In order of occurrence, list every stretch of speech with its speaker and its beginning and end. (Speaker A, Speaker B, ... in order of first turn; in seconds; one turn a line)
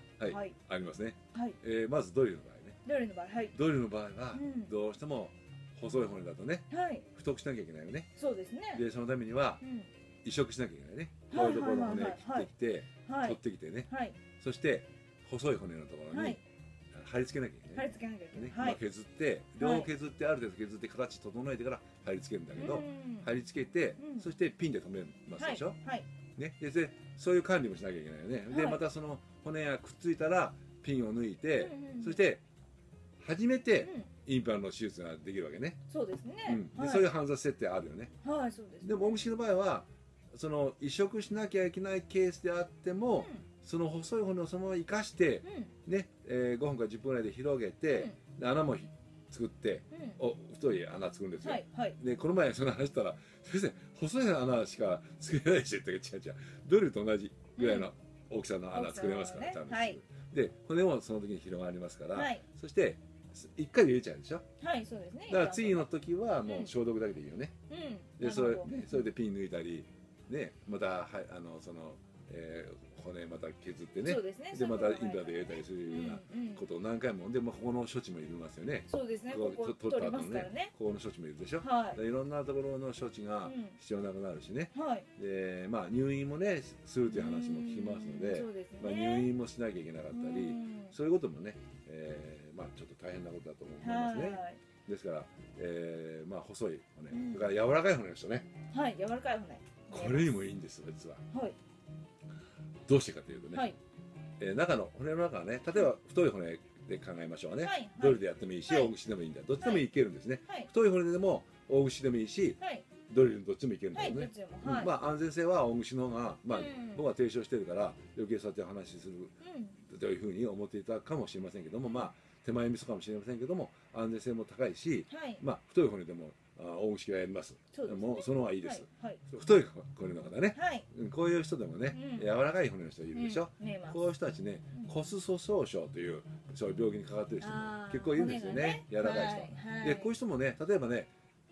Speaker A: 0.2-2.8
Speaker B: 0.2-0.6
Speaker B: 1.3-1.6
Speaker B: 2.9-3.5
Speaker A: 3.5-8.1
Speaker B: 4.3-4.7
Speaker B: 6.7-7.1
Speaker B: 8.2-8.8
Speaker A: 8.7-9.6
Speaker B: 9.6-9.9
Speaker A: 10.2-16.4
Speaker B: 11.3-14.2
Speaker B: 16.1-16.4
Speaker A: 16.9-25.8
Speaker B: 17.8-18.8
Speaker B: 19.6-19.9
Speaker B: 22.6-23.3
Speaker B: 24.0-24.3
Speaker B: 25.4-26.1
Speaker A: 26.4-32.4
Speaker B: 28.5-28.8
Speaker B: 31.6-32.2
Speaker A: 33.2-35.8
Speaker B: 33.8-34.1
Speaker B: 35.9-37.1
Speaker A: 36.5-38.1
Speaker B: 38.2-39.1
Speaker A: 38.8-64.5
Speaker B: 43.2-43.5
Speaker B: 45.4-45.7
Speaker B: 49.9-50.2
Speaker B: 51.4-52.0
Speaker B: 57.6-57.9
Speaker B: 58.7-60.0
Speaker B: 62.1-62.4
Speaker B: 64.6-65.9
Speaker A: 65.3-67.5
Speaker B: 66.5-66.7
Speaker B: 67.7-69.0
Speaker A: 68.2-98.5
Speaker B: 74.0-76.6
Speaker B: 78.9-80.7
Speaker B: 81.6-82.0
Speaker B: 83.4-83.8
Speaker B: 84.7-85.1
Speaker B: 87.1-89.3
Speaker B: 90.1-91.0
Speaker B: 93.8-94.6
Speaker B: 97.1-97.5
Speaker B: 98.7-100.4
Speaker A: 99.9-101.2
Speaker B: 101.3-101.6
Speaker A: 102.9-103.7
Speaker B: 103.5-103.8
Speaker A: 104.4-141.1
Speaker B: 107.6-108.9
Speaker B: 112.6-112.9
Speaker B: 113.9-114.9
Speaker B: 116.5-117.1
Speaker B: 119.4-119.8
Speaker B: 121.9-122.1
Speaker B: 125.1-125.4
Speaker B: 127.7-129.2
Speaker B: 130.5-130.9
Speaker B: 131.9-132.3
Speaker B: 133.1-134.1
Speaker B: 137.4-140.1